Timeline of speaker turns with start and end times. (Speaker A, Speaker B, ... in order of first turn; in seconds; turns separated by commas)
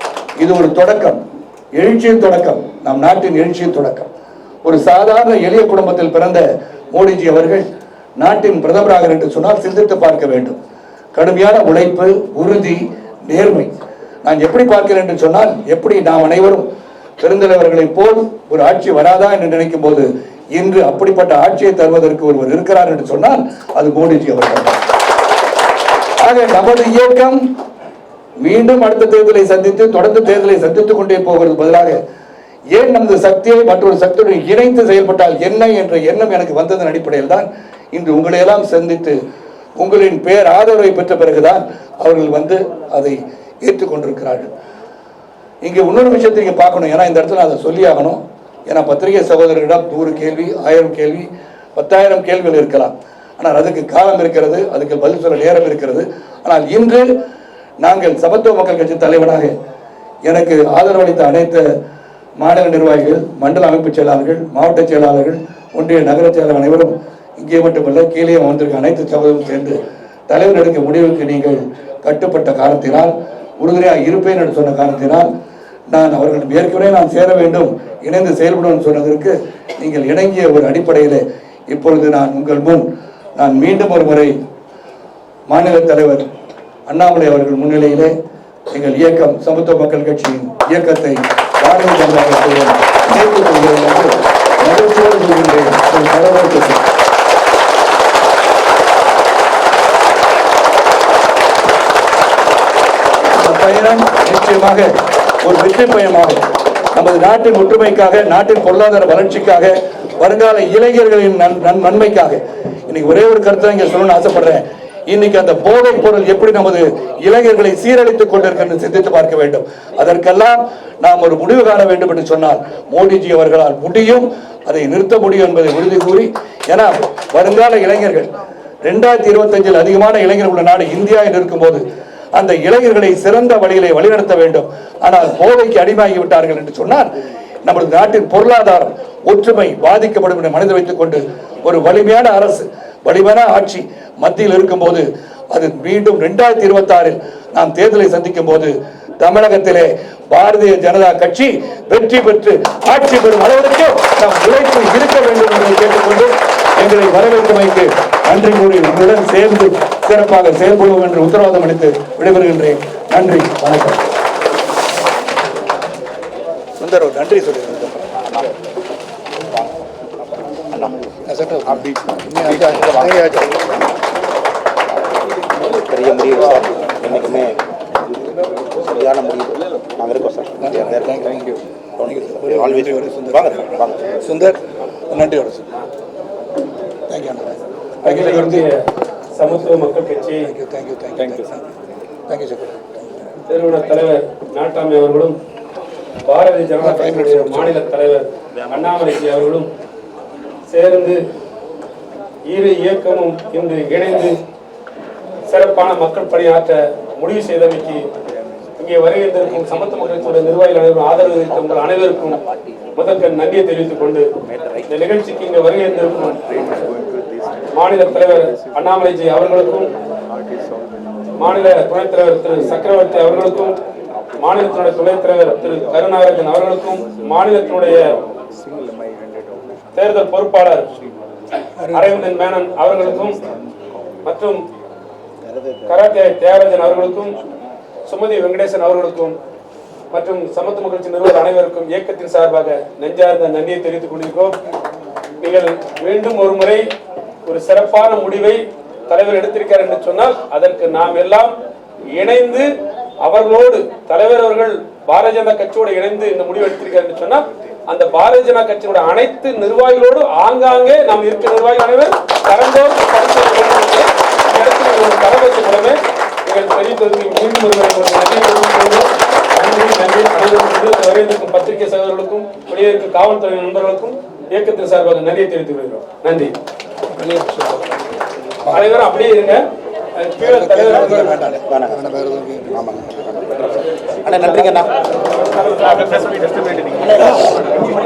Speaker A: 0.4-1.2, Speaker A: 1.7-4.1, Speaker A: 4.6-7.7, Speaker A: 8.2-10.6, Speaker A: 11.1-13.7, Speaker A: 14.2-16.6, Speaker A: 17.2-24.8, Speaker A: 26.2-27.4, Speaker A: 28.4-32.0, Speaker A: 32.7-39.2, Speaker A: 39.8-44.5, Speaker A: 45.6-57.1, Speaker A: 57.8-59.5, Speaker A: 60.2-61.6, Speaker A: 62.4-75.3, Speaker A: 75.9-84.3, Speaker A: 85.5-86.2, Speaker A: 86.9-88.1, Speaker A: 88.7-96.8, Speaker A: 103.3-104.9, Speaker A: 105.4-128.3, Speaker A: 128.8-131.8, Speaker A: 132.3-137.1, Speaker A: 137.6-164.1, Speaker A: 166.8-168.0, Speaker A: 171.2-173.7, Speaker B: 172.7-173.1, Speaker B: 175.6-177.6, Speaker A: 177.1-177.4, Speaker B: 178.8-181.3, Speaker A: 180.6-185.7, Speaker B: 182.0-184.0, Speaker A: 187.1-188.7, Speaker C: 188.0-188.8, Speaker C: 189.3-190.5, Speaker A: 189.4-189.8, Speaker A: 190.4-191.7, Speaker A: 192.3-192.8, Speaker C: 193.5-195.4, Speaker C: 196.3-199.7, Speaker A: 196.8-197.8, Speaker C: 200.7-201.2, Speaker C: 202.5-204.4, Speaker C: 205.5-208.1, Speaker C: 208.8-212.4, Speaker C: 212.9-214.3, Speaker C: 214.9-216.8, Speaker C: 217.7-219.9, Speaker C: 221.4-223.8, Speaker C: 224.4-228.0, Speaker C: 229.9-230.9, Speaker A: 231.8-232.1, Speaker C: 231.9-233.4, Speaker C: 234.2-234.6, Speaker C: 235.9-237.4, Speaker C: 238.1-239.3, Speaker C: 240.1-244.5, Speaker C: 245.4-246.8, Speaker C: 247.4-251.6, Speaker C: 252.1-252.7, Speaker C: 253.2-276.5, Speaker A: 277.1-278.0, Speaker C: 278.7-279.6, Speaker C: 280.2-281.4, Speaker A: 280.4-283.0, Speaker B: 281.7-282.0, Speaker B: 282.7-284.9, Speaker C: 285.3-287.4